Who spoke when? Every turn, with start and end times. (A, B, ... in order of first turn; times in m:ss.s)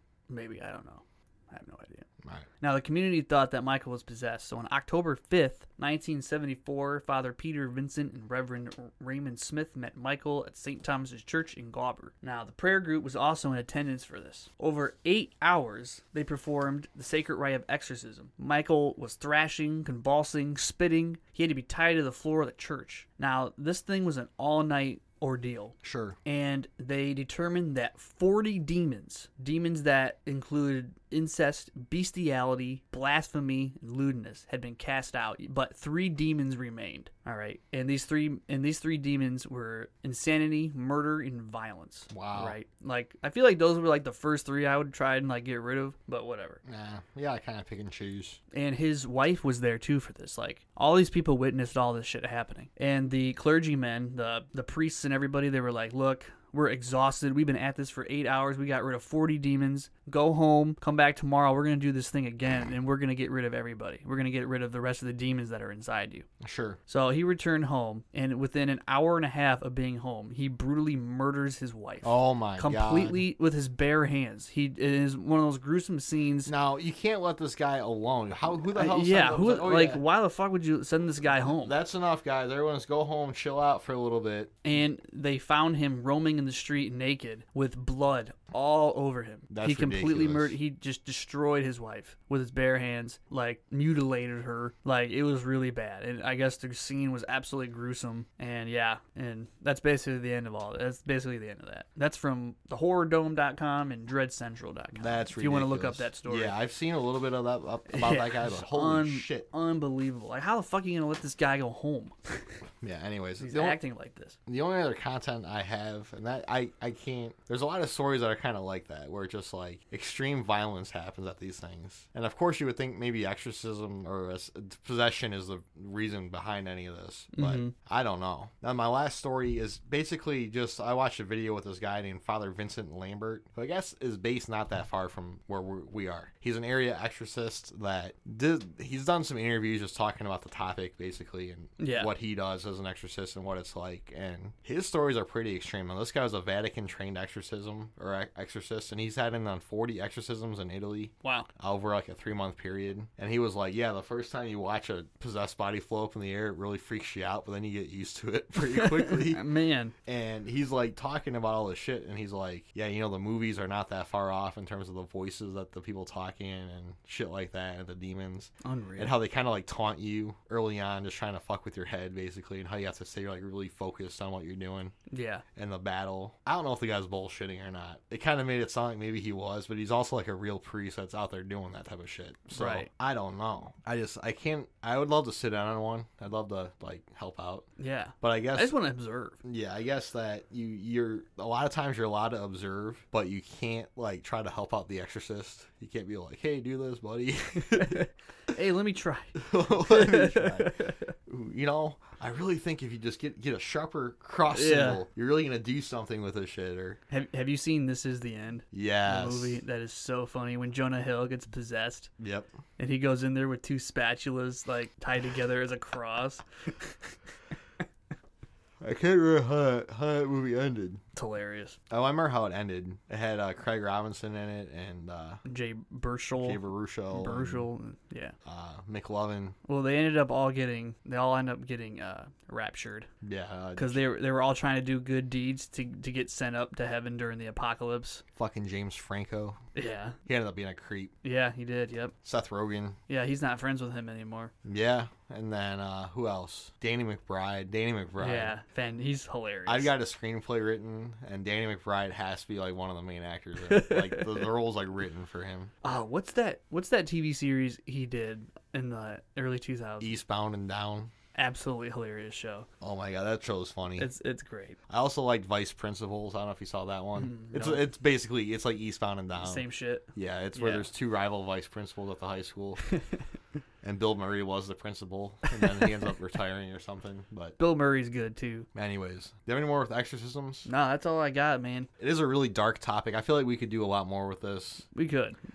0:00.3-0:02.1 A
0:02.6-0:46.6 A
0:25.8-0:26.2 B
0:42.1-0:42.6 B
0:46.6-0:48.4 B
0:48.5-1:06.3 A
1:06.4-1:06.8 B
1:06.9-1:16.5 A
1:12.0-1:13.2 B
1:16.5-1:20.0 B
1:18.7-1:21.7 A
1:21.6-1:24.6 B
1:24.6-1:46.6 A
1:29.5-1:30.6 B
1:45.0-1:49.5 B
1:47.9-1:52.6 A
1:52.8-1:53.8 B
1:53.4-1:54.4 A
1:54.5-2:39.4 B
2:07.3-2:07.7 A
2:21.8-2:22.1 A
2:31.2-2:31.5 A
2:38.8-2:39.9 A
2:40.0-2:55.0 B
2:48.6-2:49.2 A
2:55.1-2:55.4 A
2:55.6-3:07.7 B
3:02.5-3:02.9 A
3:07.8-3:09.4 A
3:08.2-3:08.8 B
3:09.4-3:18.0 B
3:17.6-3:21.0 A
3:19.4-3:27.0 B
3:24.5-3:25.0 A
3:27.1-3:32.1 A
3:28.7-3:29.6 B
3:32.2-3:32.5 B
3:32.8-3:37.0 A
3:38.8-3:41.0 B
3:41.2-3:41.8 A
3:41.9-3:45.4 B
3:45.4-3:48.4 A
3:46.4-3:47.7 B
3:48.4-3:49.6 B
3:49.7-3:53.1 A
3:53.2-3:54.0 B
3:53.8-3:58.2 A
3:58.4-3:59.6 B
3:59.8-4:00.2 A
4:00.3-4:01.1 B
4:01.2-4:02.1 A
4:02.2-4:03.0 B
4:03.1-4:04.5 A
4:04.6-4:08.5 B
4:08.2-4:09.9 A
4:09.7-4:15.7 B
4:13.6-4:14.5 A
4:15.8-4:20.2 A
4:20.0-4:21.1 B
4:21.4-4:22.7 A
4:22.8-4:24.1 B
4:24.0-4:24.8 A
4:24.9-4:32.9 B
4:27.2-4:27.9 A
4:29.4-4:30.9 A
4:33.8-4:37.6 B
4:35.5-4:35.8 A
4:37.6-4:38.7 A
4:38.7-4:40.7 B
4:40.7-4:41.9 A
4:42.0-4:44.9 B
4:44.9-4:45.4 A